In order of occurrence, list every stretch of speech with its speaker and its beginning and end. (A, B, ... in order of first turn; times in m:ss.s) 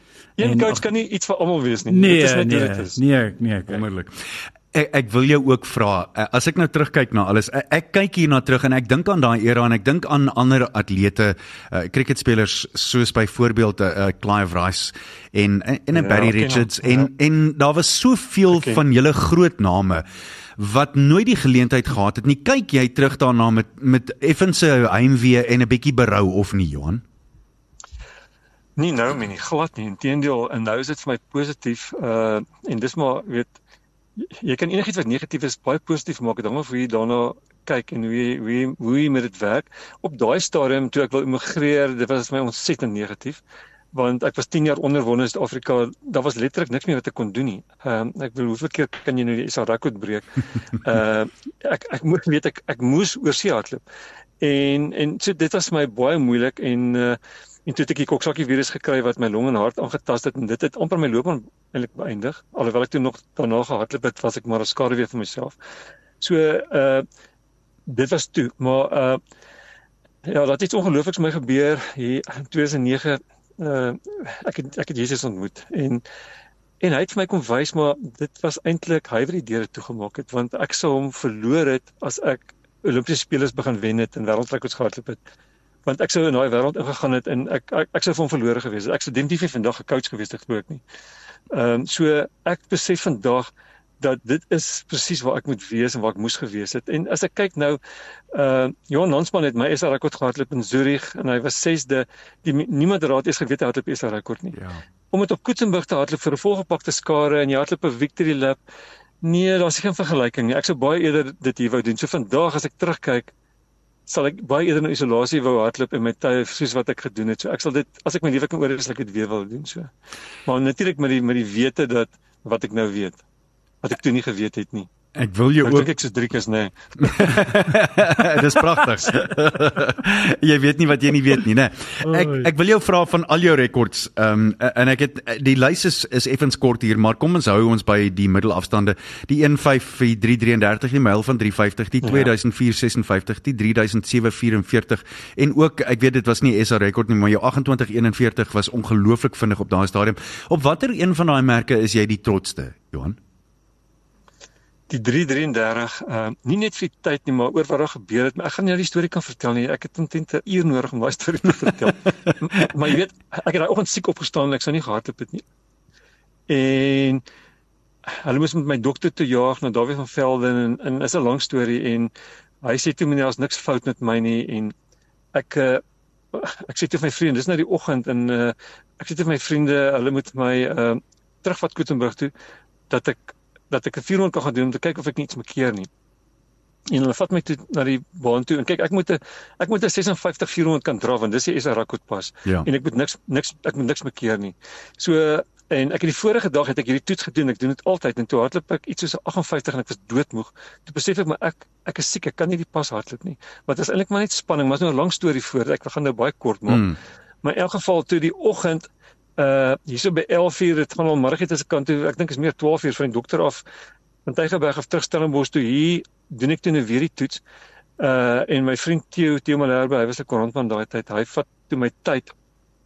0:00.4-0:03.0 A
0:00.4-0:00.8 B
0:01.9-0:03.8 B
0:03.7-0:20.0 C
0:15.9-0:17.1 A
0:18.5-0:18.8 A
0:20.6-0:27.0 C
0:28.8-0:33.5 A
0:34.2-0:43.4 A
0:43.9-0:53.8 A
0:54.4-1:05.5 A
1:06.2-1:07.0 A
1:07.9-1:09.2 A
1:10.2-1:16.0 A
1:16.8-1:25.2 A
1:25.8-1:30.8 A
1:31.5-1:37.8 A
1:38.3-1:44.6 A
1:44.5-1:44.8 C
1:45.1-1:48.6 A
1:49.2-1:53.3 A
1:54.1-1:59.9 A
2:00.4-2:03.2 A
2:03.8-2:04.9 A
2:05.1-2:05.9 C
2:05.6-2:07.5 A
2:07.0-2:33.2 C
2:12.1-2:12.5 B
2:22.0-2:22.3 A
2:34.9-2:45.4 A
2:46.5-2:47.2 A
2:48.1-2:52.1 A
2:52.6-2:54.7 A
2:55.3-2:55.8 A
2:56.3-3:02.3 A
3:02.9-3:05.9 A
3:06.9-3:33.6 A
3:26.7-3:27.0 C
3:34.2-3:37.4 A
3:38.0-3:42.3 A